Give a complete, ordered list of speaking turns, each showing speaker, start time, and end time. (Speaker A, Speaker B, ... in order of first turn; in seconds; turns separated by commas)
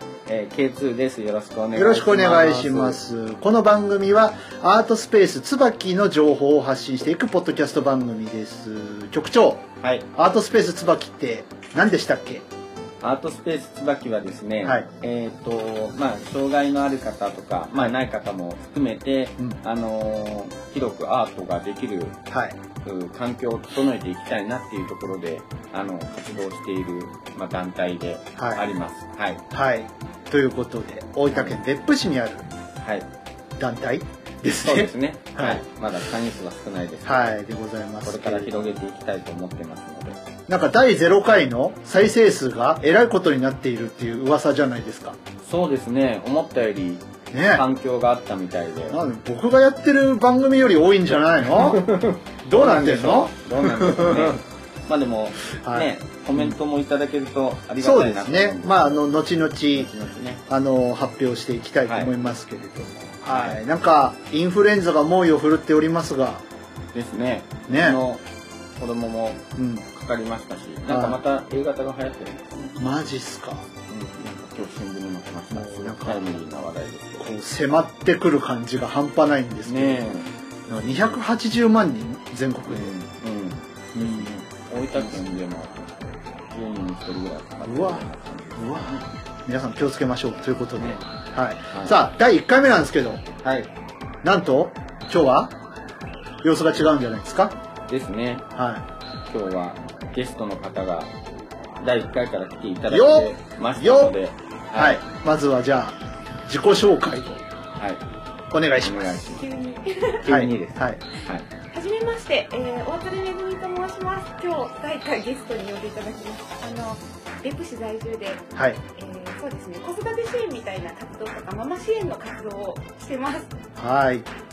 Speaker A: 0.2-3.0, Speaker B: 1.7-12.4, Speaker A: 13.0-22.2, Speaker B: 14.6-14.9, Speaker B: 22.3-22.6, Speaker A: 22.8-29.4, Speaker B: 28.4-28.6, Speaker B: 29.5-32.5, Speaker A: 31.3-31.6, Speaker A: 32.8-33.1, Speaker B: 33.6-35.6, Speaker A: 34.6-37.3, Speaker B: 37.0-38.5, Speaker A: 38.0-40.2, Speaker B: 40.5-45.2, Speaker A: 45.4-49.0, Speaker B: 47.3-47.6, Speaker B: 48.9-54.4, Speaker A: 51.5-59.1, Speaker B: 55.5-56.5, Speaker B: 57.8-59.9, Speaker A: 59.7-60.4, Speaker B: 60.5-66.4, Speaker A: 61.9-62.1, Speaker A: 63.0-63.6, Speaker A: 66.9-68.2, Speaker B: 67.7-68.0, Speaker A: 68.8-72.8, Speaker B: 69.6-69.8, Speaker B: 70.9-71.2, Speaker B: 72.8-73.7, Speaker A: 73.9-77.4, Speaker B: 75.5-76.4, Speaker B: 77.2-80.2, Speaker A: 79.7-81.2, Speaker B: 80.7-82.9, Speaker A: 82.7-89.1, Speaker B: 83.9-84.4, Speaker B: 84.9-85.2, Speaker B: 87.6-88.0, Speaker B: 88.6-93.2, Speaker A: 90.8-91.0, Speaker A: 91.7-92.0, Speaker A: 93.4-93.7, Speaker B: 94.2-95.5, Speaker B: 96.4-97.5, Speaker A: 97.9-98.5, Speaker B: 98.5-98.8, Speaker A: 99.3-101.1, Speaker A: 101.8-105.0, Speaker B: 102.9-104.2, Speaker B: 104.7-107.4, Speaker A: 107.8-108.0, Speaker B: 108.5-109.2, Speaker A: 108.8-109.5, Speaker C: 109.3-110.2, Speaker A: 110.2-111.5, Speaker B: 110.3-111.0, Speaker C: 111.7-123.5, Speaker B: 118.5-118.8, Speaker B: 123.8-124.3